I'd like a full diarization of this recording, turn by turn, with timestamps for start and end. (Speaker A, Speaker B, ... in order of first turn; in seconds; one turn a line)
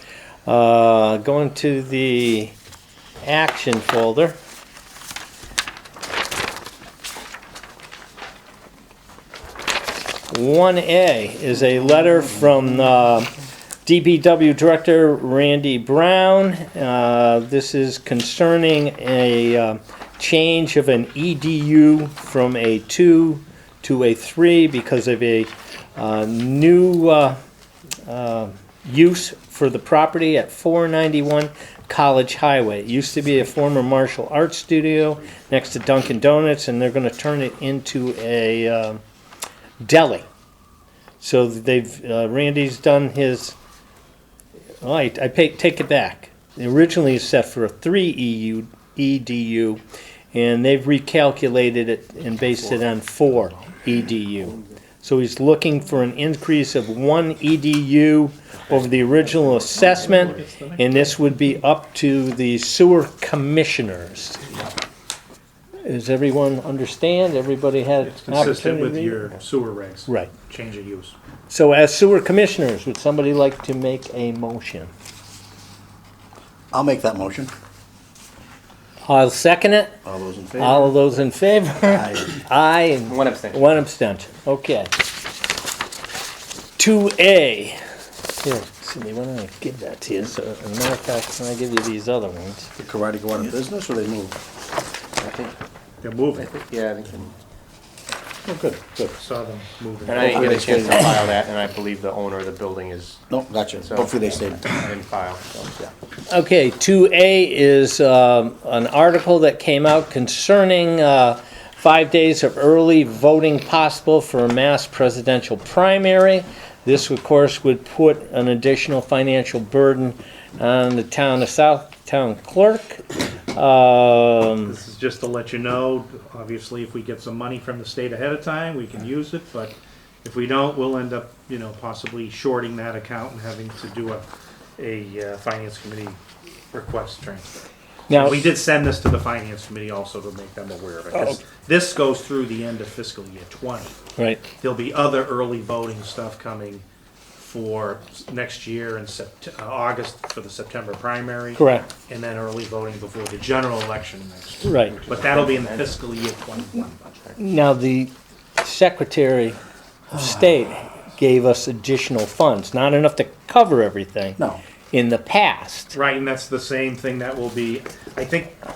Speaker A: 0.5-2.5
Speaker A: 3.2-4.3
Speaker A: 10.3-13.3
Speaker A: 13.8-27.4
Speaker A: 28.1-39.0
Speaker A: 39.8-40.3
Speaker A: 41.2-43.5
Speaker A: 44.8-49.8
Speaker A: 50.3-64.5
Speaker B: 59.6-61.1
Speaker A: 65.8-69.2
Speaker B: 68.1-71.1
Speaker A: 70.1-70.3
Speaker A: 71.5-74.9
Speaker C: 76.7-77.5
Speaker A: 79.0-80.0
Speaker C: 80.0-80.9
Speaker A: 80.6-84.9
Speaker C: 81.8-82.3
Speaker D: 83.1-83.6
Speaker A: 86.8-87.8
Speaker A: 88.4-92.7
Speaker C: 92.8-94.4
Speaker D: 95.2-95.5
Speaker B: 96.0-96.5
Speaker D: 96.4-97.3
Speaker C: 98.4-99.2
Speaker B: 99.2-100.9
Speaker D: 100.0-103.2
Speaker C: 100.1-101.1
Speaker C: 103.3-104.8
Speaker D: 103.8-105.8
Speaker A: 106.3-124.8
Speaker B: 124.7-134.2
Speaker B: 134.8-136.2
Speaker B: 136.7-137.5
Speaker A: 138.1-138.5
Speaker B: 138.1-143.9
Speaker A: 144.2-144.4
Speaker B: 144.6-146.8
Speaker B: 147.4-157.1
Speaker A: 151.6-151.9
Speaker A: 154.6-155.0
Speaker D: 154.9-155.9
Speaker A: 157.4-159.6
Speaker A: 160.1-165.9
Speaker B: 165.9-168.6